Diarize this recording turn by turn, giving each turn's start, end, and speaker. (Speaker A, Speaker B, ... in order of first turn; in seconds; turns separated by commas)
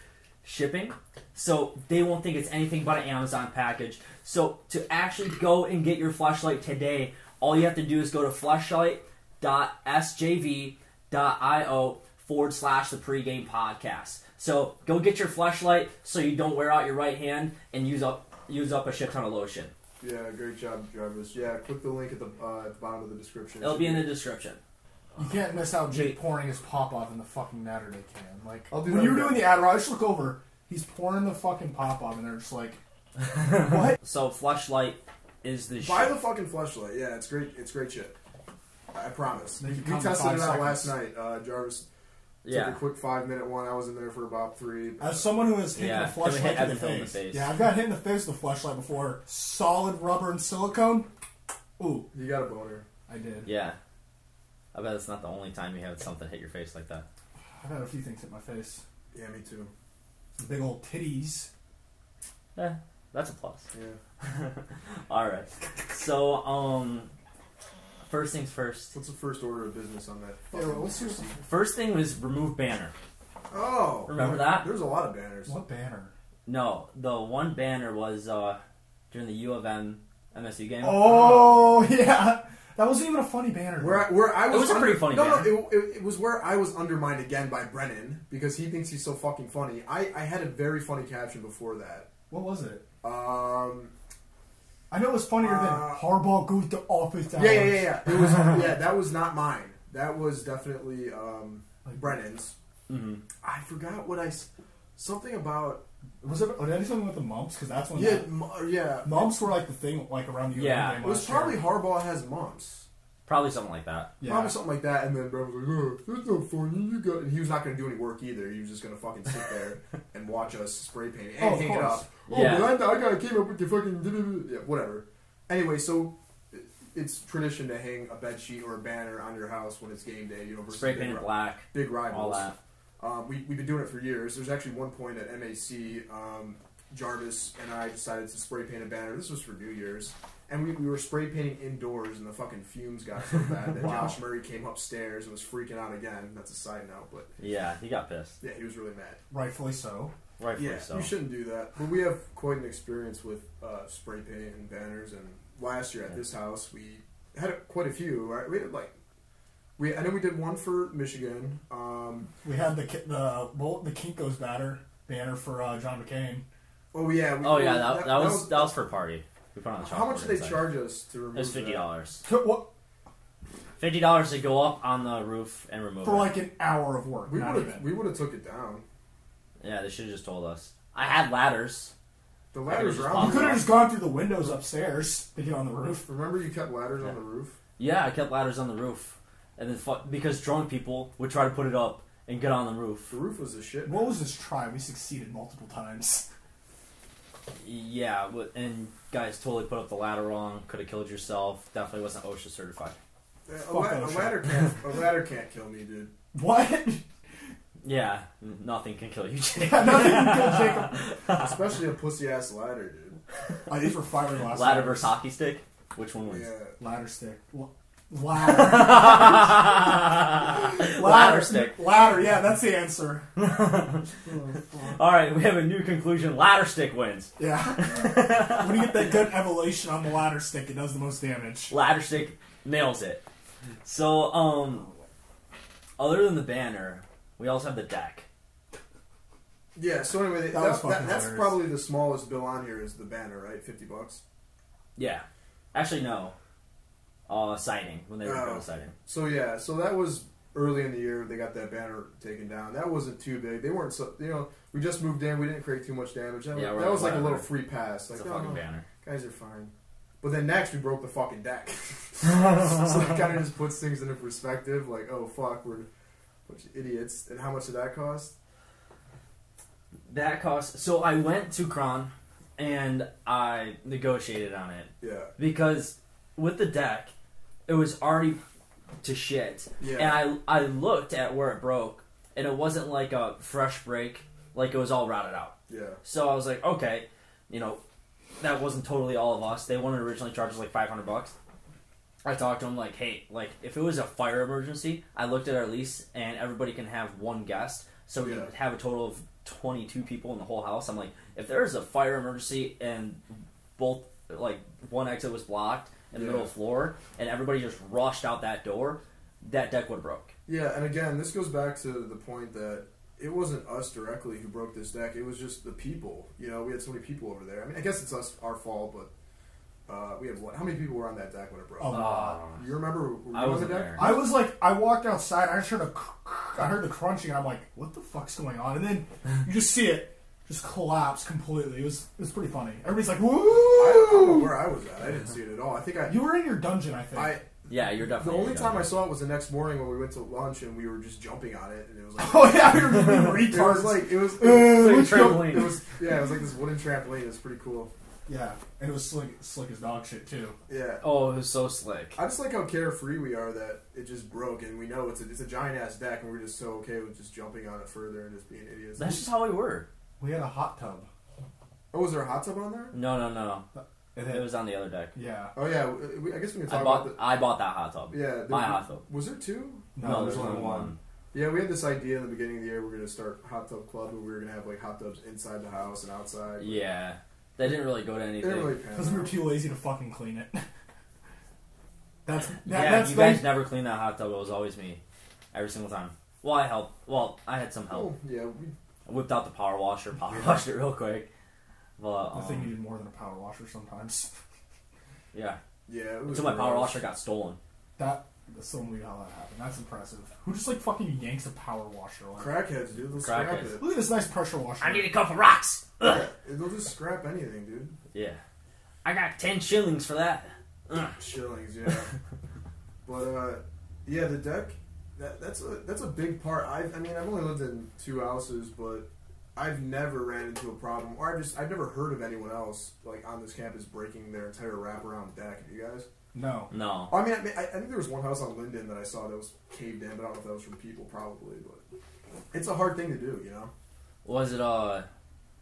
Speaker A: 0.4-19.7, Speaker B: 20.0-24.1, Speaker A: 23.6-24.6, Speaker C: 25.1-32.8, Speaker A: 25.9-26.2, Speaker B: 28.7-29.6, Speaker A: 33.2-36.1, Speaker C: 33.5-34.0, Speaker B: 35.8-38.1, Speaker B: 38.9-41.9, Speaker C: 39.6-40.9, Speaker A: 42.4-42.8, Speaker B: 42.5-45.3, Speaker C: 45.0-51.1, Speaker A: 45.7-47.5, Speaker C: 51.8-52.1, Speaker B: 52.1-52.8, Speaker C: 53.1-53.5, Speaker A: 53.4-53.8, Speaker A: 54.7-57.0, Speaker C: 57.6-58.8, Speaker B: 59.1-59.7, Speaker C: 60.4-61.5, Speaker A: 62.5-63.7, Speaker B: 63.7-64.0, Speaker A: 64.2-67.1, Speaker A: 68.1-68.9, Speaker B: 68.9-71.4, Speaker C: 70.5-71.2, Speaker A: 71.4-72.9, Speaker B: 73.5-75.5, Speaker A: 74.1-74.7, Speaker C: 75.4-76.1, Speaker A: 76.5-78.6, Speaker A: 79.1-81.3, Speaker C: 80.8-84.1, Speaker B: 81.0-81.8, Speaker B: 83.8-92.1, Speaker A: 84.5-85.5, Speaker C: 92.3-92.8, Speaker B: 93.0-93.9, Speaker C: 94.9-98.7, Speaker B: 95.4-96.1, Speaker B: 97.3-102.5, Speaker C: 101.8-102.2, Speaker A: 102.9-103.2, Speaker B: 103.4-105.8, Speaker C: 106.2-108.3, Speaker B: 107.9-109.3, Speaker C: 109.0-111.7, Speaker A: 110.5-111.0, Speaker B: 111.0-112.8, Speaker A: 113.2-114.1, Speaker C: 114.2-114.6, Speaker B: 114.2-132.5, Speaker C: 121.4-122.6, Speaker A: 122.3-122.7, Speaker A: 130.7-132.6, Speaker B: 133.0-147.3, Speaker C: 143.7-144.2, Speaker A: 147.4-148.4, Speaker B: 148.4-149.2, Speaker C: 149.3-150.1, Speaker A: 150.4-151.1, Speaker B: 150.6-158.9, Speaker B: 159.8-162.3, Speaker C: 162.4-166.4, Speaker B: 166.9-168.8, Speaker A: 167.4-170.7, Speaker B: 169.8-171.9, Speaker A: 171.3-172.2, Speaker C: 172.2-172.7, Speaker A: 173.8-176.3, Speaker C: 176.0-177.9, Speaker B: 177.2-178.8, Speaker A: 179.6-181.9, Speaker B: 182.5-183.7, Speaker A: 182.7-183.7, Speaker C: 183.2-186.1, Speaker B: 186.0-187.6, Speaker A: 187.8-193.1, Speaker B: 193.1-194.1, Speaker C: 193.8-196.3, Speaker A: 197.6-203.0, Speaker B: 203.5-206.1, Speaker C: 203.7-204.7, Speaker C: 206.3-207.0, Speaker A: 207.8-211.5, Speaker C: 209.6-211.0, Speaker B: 211.3-213.2, Speaker C: 213.7-215.2, Speaker A: 214.5-216.5, Speaker B: 216.2-216.8, Speaker C: 216.8-223.3, Speaker A: 218.4-221.8, Speaker A: 223.3-224.1, Speaker C: 224.2-225.0, Speaker A: 224.9-229.3, Speaker C: 227.4-231.7, Speaker A: 231.7-233.2, Speaker A: 233.8-234.9, Speaker A: 236.0-238.2, Speaker B: 239.7-244.2, Speaker C: 240.5-241.6, Speaker A: 244.9-246.3, Speaker A: 247.3-248.9, Speaker B: 248.2-265.9, Speaker A: 256.5-257.5, Speaker A: 258.1-258.9, Speaker B: 266.5-268.3, Speaker A: 270.1-277.1, Speaker B: 275.0-275.3, Speaker A: 277.7-278.4, Speaker A: 279.0-287.8, Speaker B: 279.8-280.3, Speaker B: 285.7-286.0, Speaker A: 288.4-291.3, Speaker A: 292.2-310.3, Speaker B: 298.2-298.5, Speaker B: 306.1-306.5, Speaker B: 310.5-319.1, Speaker B: 319.9-324.3, Speaker C: 321.8-322.4, Speaker A: 321.9-322.6, Speaker A: 323.3-324.1, Speaker C: 323.9-334.5, Speaker B: 333.7-336.2, Speaker C: 336.1-337.4, Speaker B: 337.1-347.9, Speaker A: 337.7-338.9, Speaker C: 342.2-345.8, Speaker A: 344.5-345.7, Speaker C: 348.3-350.6, Speaker B: 350.7-351.0, Speaker A: 351.0-352.2, Speaker B: 352.1-359.3, Speaker A: 359.0-359.9, Speaker C: 360.2-361.1, Speaker B: 361.9-362.9, Speaker A: 362.9-363.6, Speaker C: 363.7-364.5, Speaker A: 364.2-365.1, Speaker C: 365.1-365.5, Speaker B: 365.5-367.2, Speaker A: 366.7-369.0, Speaker B: 368.1-376.8, Speaker C: 369.9-370.9, Speaker A: 370.0-371.0, Speaker A: 376.6-378.7, Speaker B: 378.4-379.4, Speaker C: 378.9-380.6, Speaker C: 382.2-383.6, Speaker A: 382.6-385.0, Speaker A: 385.5-388.1, Speaker B: 387.9-388.7, Speaker A: 389.1-391.3, Speaker B: 390.3-390.6, Speaker A: 392.0-392.8, Speaker C: 392.3-394.4, Speaker A: 395.3-395.6, Speaker B: 395.9-397.0, Speaker A: 396.3-397.6, Speaker C: 398.0-402.6, Speaker B: 402.4-403.9, Speaker A: 403.2-403.8, Speaker C: 403.8-405.1, Speaker A: 404.8-406.2, Speaker B: 406.0-407.9, Speaker A: 408.1-408.4, Speaker A: 409.0-411.1, Speaker B: 411.1-412.1, Speaker B: 413.0-426.1, Speaker C: 426.3-426.7, Speaker A: 426.7-427.1, Speaker B: 427.1-431.8, Speaker B: 432.5-433.7, Speaker A: 434.2-435.1